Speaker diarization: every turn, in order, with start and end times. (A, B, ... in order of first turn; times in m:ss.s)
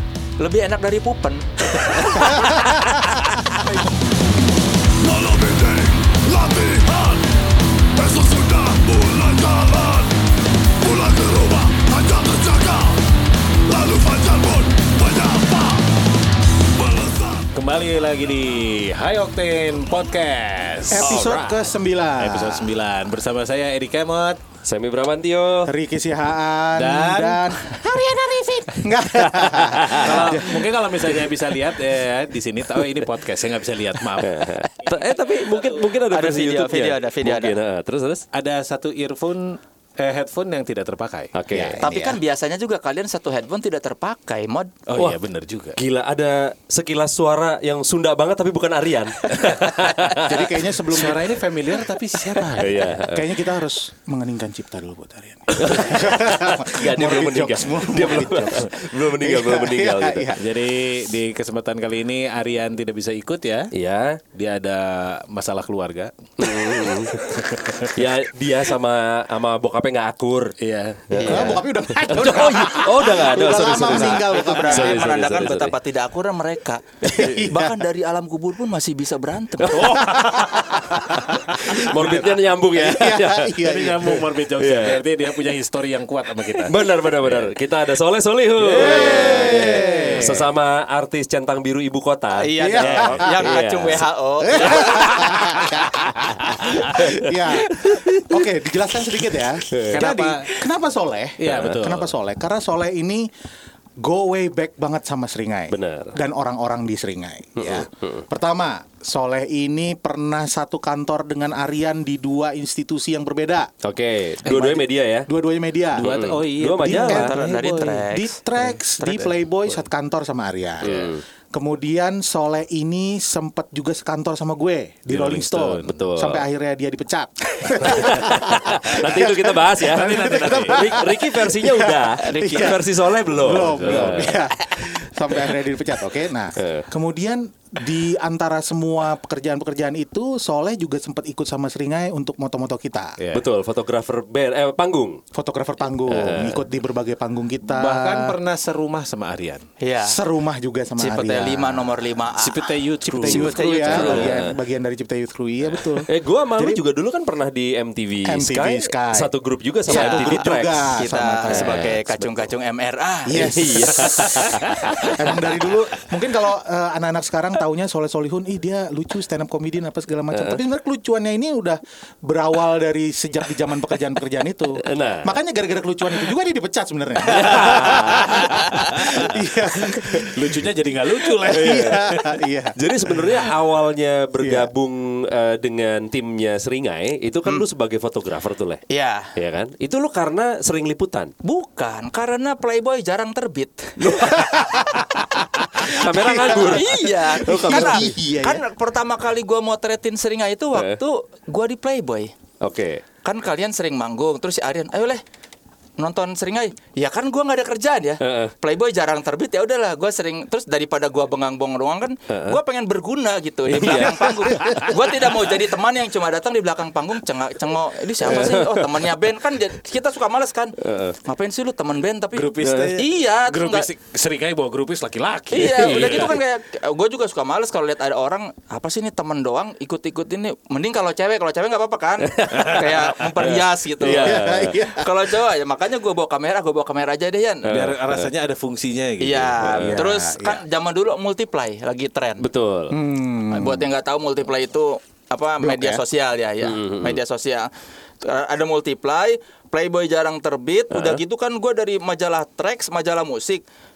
0:00.4-0:03.3 A
0:05.1-0:07.2 B
0:08.0-0:10.2 B
0:10.8-0:13.0 B
0:13.7-0:15.8 B
0:17.4-0:24.4 C
0:20.9-0:22.7 D
0:24.6-0:25.7 E
0:25.7-0:30.8 D
0:26.8-0:27.6 C
0:29.2-0:30.3 E
0:29.9-0:35.0 C
0:34.2-0:38.3 E
0:35.6-0:35.8 C
0:36.1-0:37.6 A
0:38.3-0:41.8 C
0:41.3-0:41.8 E
0:41.5-0:42.2 D
0:41.8-0:44.7 A
0:44.9-0:45.8 C
0:45.8-0:50.5 E
0:49.4-0:49.8 C
0:50.2-0:51.4 D
0:50.9-0:52.9 C
0:52.4-1:00.5 D
0:52.6-0:53.3 E
0:55.6-1:00.3 E
1:00.4-1:03.7 C
1:03.7-1:04.2 E
1:04.3-1:07.9 C
1:06.4-1:07.2 E
1:07.9-1:10.5 E
1:10.6-1:11.6 C
1:11.1-1:11.6 E
1:11.1-1:11.6 A
1:11.2-1:15.2 D
1:12.1-1:15.8 E
1:12.1-1:20.2 A
1:17.0-1:17.8 D
1:19.7-1:20.8 C
1:20.0-1:24.3 D
1:21.7-1:22.3 C
1:21.8-1:23.6 E
1:23.6-1:27.5 C
1:24.6-1:25.0 E
1:26.7-1:34.0 E
1:28.6-1:30.3 C
1:28.7-1:30.5 D
1:32.3-1:35.3 A
1:32.6-1:33.6 D
1:32.8-1:33.2 C
1:34.4-1:43.3 D
1:36.8-1:37.1 E
1:37.7-1:38.1 E
1:39.7-1:40.1 E
1:39.9-1:40.6 C
1:41.4-1:42.1 C
1:41.5-1:41.8 E
1:44.0-1:53.7 D
1:45.7-1:46.1 E
1:47.6-1:48.1 E
1:53.8-1:55.3 E
1:54.4-1:56.1 D
1:56.0-1:57.3 E
1:56.0-1:58.0 C
1:56.8-2:23.2 D
1:57.1-1:58.4 A
1:59.0-1:59.3 A
2:00.8-2:01.2 E
2:05.1-2:06.0 C
2:05.9-2:06.4 E
2:07.8-2:14.4 E
2:09.8-2:11.0 C
2:12.2-2:12.8 A
2:13.5-2:14.3 C
2:16.6-2:16.9 E
2:23.2-2:23.5 C
2:23.3-2:25.2 E
2:25.3-2:28.4 D
2:26.1-2:26.6 E
2:27.7-2:29.6 C
2:29.8-2:30.2 A
2:30.0-2:32.0 D
2:31.0-2:34.3 A
2:32.4-2:34.2 C
2:33.1-2:36.8 D
2:33.9-2:34.5 E
2:36.1-2:42.0 E
2:38.2-2:39.3 D
2:39.9-2:42.0 D
2:39.9-2:43.7 A
2:43.3-2:44.5 D
2:43.3-2:45.1 E
2:44.5-2:44.9 C
2:45.1-3:00.6 D
2:50.3-2:50.6 E
2:54.8-2:55.3 E
2:57.2-2:59.0 E
2:57.4-2:59.2 C
2:59.9-3:02.4 C
3:01.4-3:03.3 D
3:01.5-3:02.2 E
3:02.8-3:08.8 E
3:04.4-3:04.7 D
3:08.9-3:09.3 A
3:09.4-3:11.3 E
3:11.4-3:15.4 A
3:14.3-3:18.6 D
3:15.8-3:18.1 E
3:15.9-3:22.3 A
3:20.7-3:21.0 E
3:22.6-3:23.0 E
3:23.2-3:25.2 A
3:26.0-3:43.9 A
3:28.2-3:28.5 E
3:32.3-3:32.6 E
3:33.7-3:34.8 E
3:34.6-3:34.9 C
3:38.2-3:38.9 E
3:40.8-3:41.2 E
3:42.3-3:46.4 C
3:42.6-3:43.0 E
3:45.5-3:57.7 A
3:45.6-3:46.3 E
3:52.3-3:54.8 E
3:54.1-3:55.1 D
3:57.7-3:58.3 E
3:57.7-3:59.9 C
3:59.2-4:02.5 A
3:59.7-4:00.6 D
4:02.4-4:03.0 E
4:02.9-4:03.9 D
4:03.5-4:07.7 A
4:05.6-4:06.0 D
4:06.6-4:07.2 E
4:08.2-4:13.6 A
4:10.9-4:11.2 E